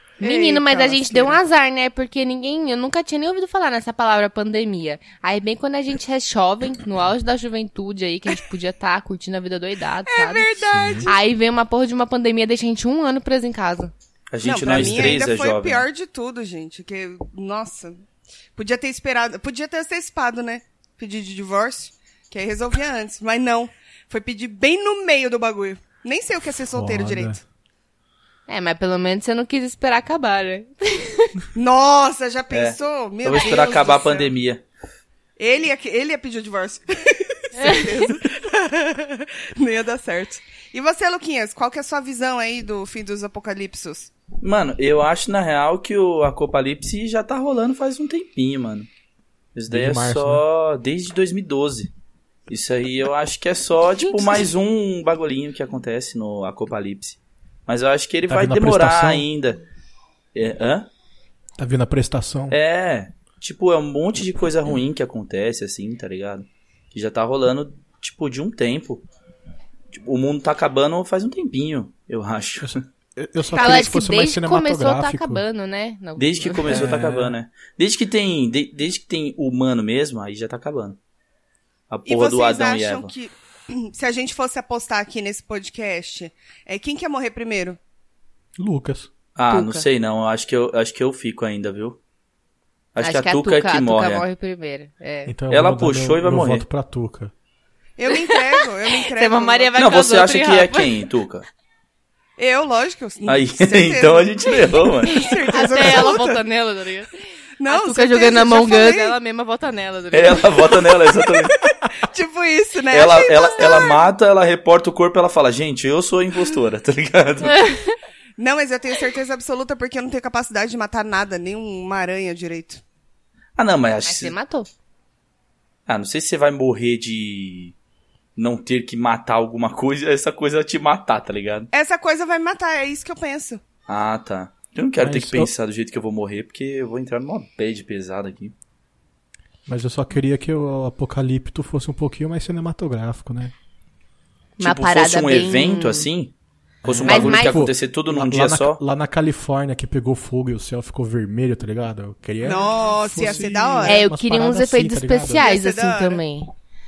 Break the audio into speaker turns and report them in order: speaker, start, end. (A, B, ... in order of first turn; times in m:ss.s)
0:00.2-0:01.4 A
0:00.2-0:10.5 B
0:10.0-0:11.2 A
0:10.7-0:11.1 C
0:11.0-0:13.9 B
0:14.3-0:15.8 D
0:14.4-0:18.0 A
0:14.7-0:15.2 C
0:18.6-0:27.4 A
0:26.7-0:27.4 C
0:28.5-0:31.4 B
0:31.5-0:34.3 A
0:32.5-0:34.6 D
0:33.4-0:33.6 B
0:35.4-0:44.1 A
0:44.4-0:48.9 D
0:49.5-0:51.9 D
0:49.7-0:50.4 C
0:52.5-0:59.6 D
0:58.3-0:59.3 C
1:00.3-1:00.9 D
1:01.6-1:02.6 C
1:02.5-1:09.0 D
1:09.9-1:12.8 D
1:12.6-1:15.4 C
1:13.5-1:16.9 B
1:16.2-1:21.0 D
1:16.6-1:17.4 C
1:21.9-1:23.1 D
1:22.0-1:27.8 A
1:28.6-1:29.1 C
1:29.4-1:32.0 D
1:29.5-1:29.8 B
1:32.9-1:34.2 D
1:33.0-1:35.3 B
1:35.2-1:37.3 C
1:35.5-1:36.6 D
1:38.0-1:39.7 A
1:38.2-1:41.0 B
1:39.8-1:41.4 D
1:42.4-1:46.4 A
1:43.3-1:45.3 D
1:45.0-1:50.8 B
1:47.6-1:49.2 A
1:50.1-1:51.5 D
1:51.9-1:54.0 A
1:52.9-1:57.7 D
1:57.4-1:58.0 B
1:58.4-2:02.8 A
2:03.6-2:04.3 D
2:04.0-2:04.7 B
2:05.9-2:07.7 D
2:08.4-2:11.7 D
2:11.7-2:13.6 A
2:13.9-2:18.5 D
2:15.0-2:15.5 C
2:19.6-2:23.5 C
2:24.6-2:26.1 B
2:24.6-2:26.3 D
2:26.8-2:28.8 D
2:26.8-2:35.4 C
2:27.0-2:27.6 B
2:32.4-2:34.0 A
2:33.8-2:36.5 B
2:35.3-2:36.2 A